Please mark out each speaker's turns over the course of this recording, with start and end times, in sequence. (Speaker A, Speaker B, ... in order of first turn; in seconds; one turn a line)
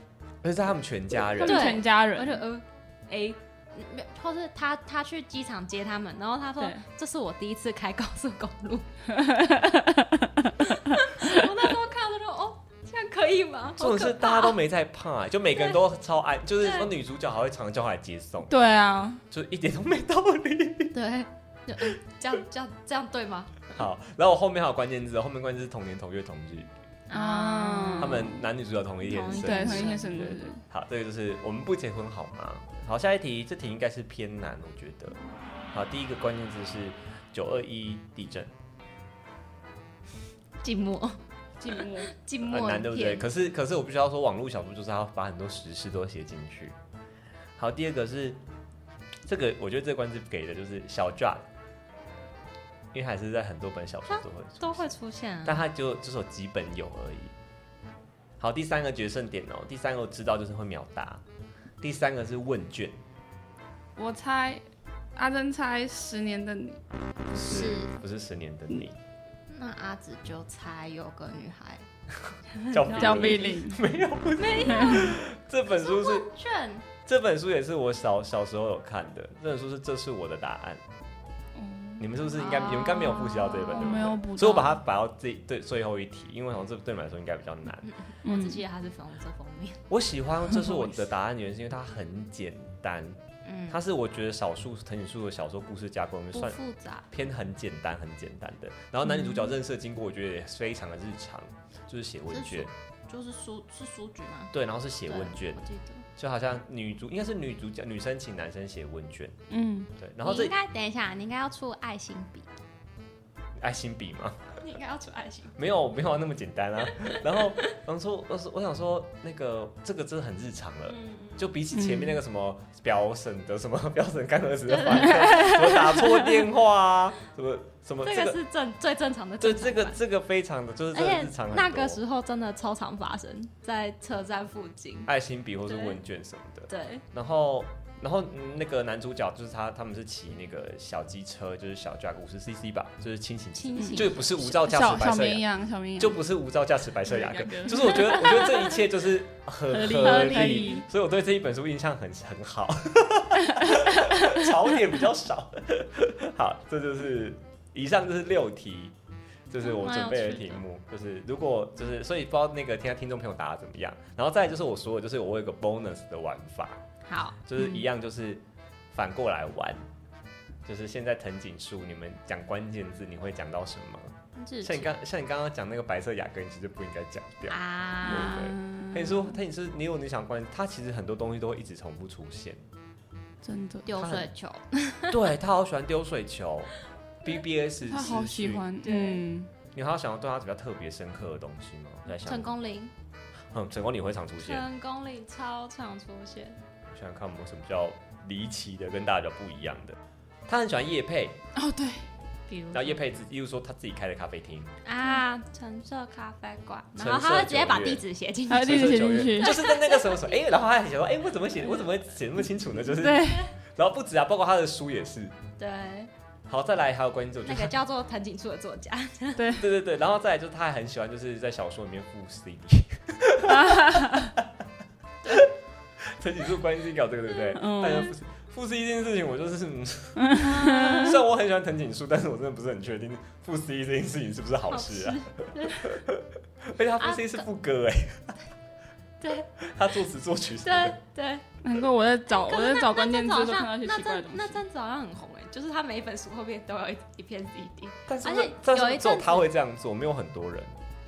Speaker A: 0.4-1.8
Speaker B: 1.4-2.4
Speaker C: 1.4-8.9
Speaker B: 9.1-11.4
Speaker C: 10.6-14.6
Speaker A: 13.8-18.5
Speaker C: 16.6-16.9
Speaker B: 18.5-19.2
Speaker A: 19.3-20.9
Speaker C: 20.9-23.8
Speaker A: 23.7-26.7
Speaker C: 27.1-28.2
Speaker B: 27.1-28.4
Speaker A: 28.0-35.2
Speaker C: 29.0-30.4
Speaker B: 29.2-30.6
Speaker A: 35.7-38.5
Speaker C: 40.6-41.2
Speaker B: 41.6-42.1
Speaker C: 41.7-43.3
Speaker A: 42.4-46.8
Speaker A: 47.6-48.4
Speaker A: 49.2-51.4
Speaker A: 52.9-57.3
Speaker C: 54.1-55.6
Speaker A: 58.4-61.2
Speaker A: 61.8-63.0
Speaker B: 64.0-64.6
Speaker B: 65.2-66.8
Speaker A: 67.3-69.0
Speaker C: 67.4-68.0
Speaker C: 69.5-71.8
Speaker A: 72.2-76.3
Speaker C: 72.5-73.6
Speaker B: 72.9-73.8
Speaker C: 74.4-75.2
Speaker B: 74.7-75.1
Speaker C: 75.7-76.8
Speaker A: 77.0-80.8
Speaker B: 81.5-84.8
Speaker A: 82.0-87.8
Speaker C: 82.5-84.1
Speaker C: 87.8-89.8
Speaker B: 88.2-88.6
Speaker A: 89.9-102.7
Speaker C: 93.4-93.8
Speaker C: 96.3-97.1
Speaker C: 102.3-104.5
Speaker A: 104.5-105.6
Speaker C: 105.1-106.0
Speaker A: 106.2-109.3
Speaker B: 109.5-109.9
Speaker A: 110.0-110.5
Speaker C: 110.2-112.5
Speaker A: 113.6-114.5
Speaker C: 114.6-115.6
Speaker A: 115.5-128.4
Speaker C: 117.0-117.7
Speaker C: 120.9-121.5
Speaker B: 121.7-122.2
Speaker C: 124.7-125.8
Speaker B: 125.1-125.7
Speaker C: 128.0-130.0
Speaker A: 129.4-132.0
Speaker C: 130.9-135.1
Speaker A: 135.1-145.4
Speaker C: 135.7-136.0
Speaker C: 136.7-137.0
Speaker C: 143.6-145.0
Speaker B: 143.8-144.1
Speaker B: 144.6-146.2
Speaker A: 146.0-158.9
Speaker B: 147.1-148.8
Speaker B: 149.7-150.8
Speaker C: 150.3-150.6
Speaker A: 159.5-166.8
Speaker C: 159.6-160.6
Speaker C: 167.1-167.8
Speaker A: 167.4-169.8
Speaker A: 170.6-182.6
Speaker C: 174.3-174.9
Speaker C: 177.5-178.5
Speaker B: 178.0-179.3
Speaker B: 183.4-183.9
Speaker C: 183.8-185.3
Speaker A: 184.0-184.3
Speaker A: 185.1-186.7
Speaker A: 187.2-188.7
Speaker B: 187.8-189.5
Speaker C: 188.8-189.2
Speaker A: 189.7-192.5
Speaker C: 192.2-192.9
Speaker A: 193.5-194.6
Speaker C: 194.4-196.6
Speaker A: 196.9-200.0
Speaker A: 200.5-201.4
Speaker B: 201.5-202.1
Speaker C: 202.5-203.0
Speaker A: 202.7-204.7
Speaker C: 204.8-210.4
Speaker A: 207.0-208.0
Speaker B: 208.5-209.6
Speaker A: 208.6-215.3
Speaker B: 212.8-213.4
Speaker C: 215.6-216.1
Speaker A: 216.5-217.7
Speaker C: 217.4-219.5
Speaker B: 219.4-219.7
Speaker A: 219.6-224.5
Speaker B: 223.5-224.3
Speaker A: 226.0-238.3
Speaker B: 227.5-228.1
Speaker B: 230.2-231.2
Speaker C: 230.4-231.2
Speaker C: 234.7-236.0
Speaker C: 237.0-237.5
Speaker C: 239.2-239.5
Speaker A: 239.6-241.0
Speaker C: 240.6-241.4
Speaker B: 241.6-244.6
Speaker C: 242.3-249.5
Speaker A: 248.1-250.8